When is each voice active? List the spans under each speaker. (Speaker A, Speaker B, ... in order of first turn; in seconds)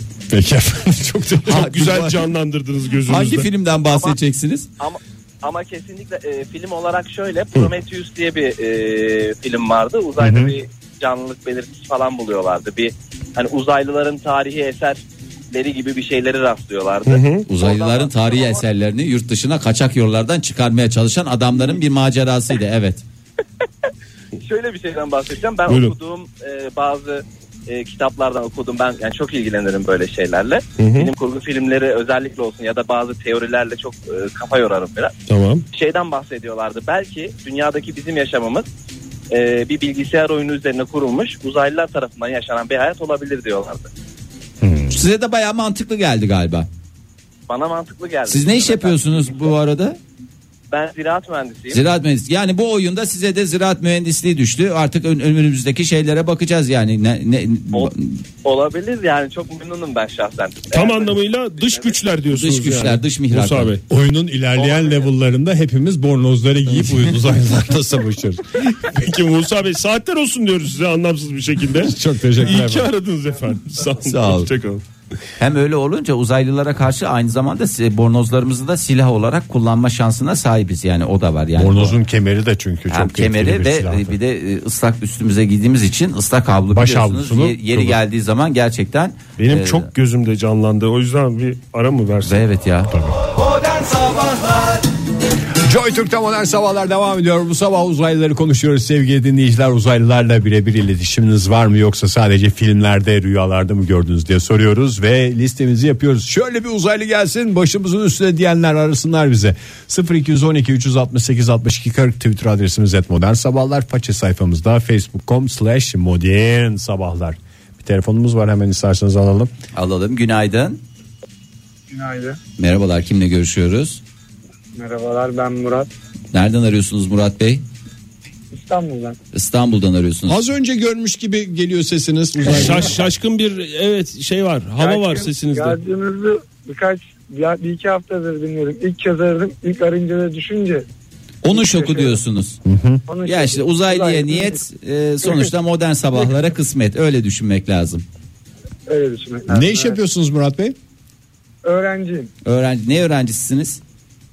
Speaker A: 0.3-1.9, 10.2-10.6, 44.6-45.0, 63.9-68.4, 71.8-72.9, 81.6-84.2, 86.7-88.0, 92.9-93.2, 95.6-119.5, 130.3-133.0, 142.7-143.0, 149.5-150.8
Speaker B: 1.5-3.5, 17.1-17.5, 25.7-25.9, 30.8-31.1, 35.3-35.6, 60.7-63.8, 68.8-74.8, 89.4-92.4, 132.5-135.8
Speaker C: 1.5-2.1, 3.1-4.7, 17.5-23.0, 44.9-46.7, 48.3-50.0, 51.7-58.2, 62.3-63.7, 74.0-74.5, 75.4-82.0, 82.9-89.9, 92.2-94.8, 119.7-120.8, 122.6-124.0, 126.3-127.6, 129.3-130.4, 141.4-142.6, 143.2-148.1, 152.4-153.8
Speaker D: 3.9-4.2, 4.8-18.6, 24.4-35.1, 35.7-38.7, 39.3-43.9, 47.5-49.5, 50.7-51.8, 58.4-62.0, 64.6-65.0
Speaker E: 121.9-122.4, 124.8-125.9, 128.6-129.2, 134.8-140.9, 141.5-142.2, 143.1-144.6, 145.2-145.5, 148.9-150.0, 151.6-152.3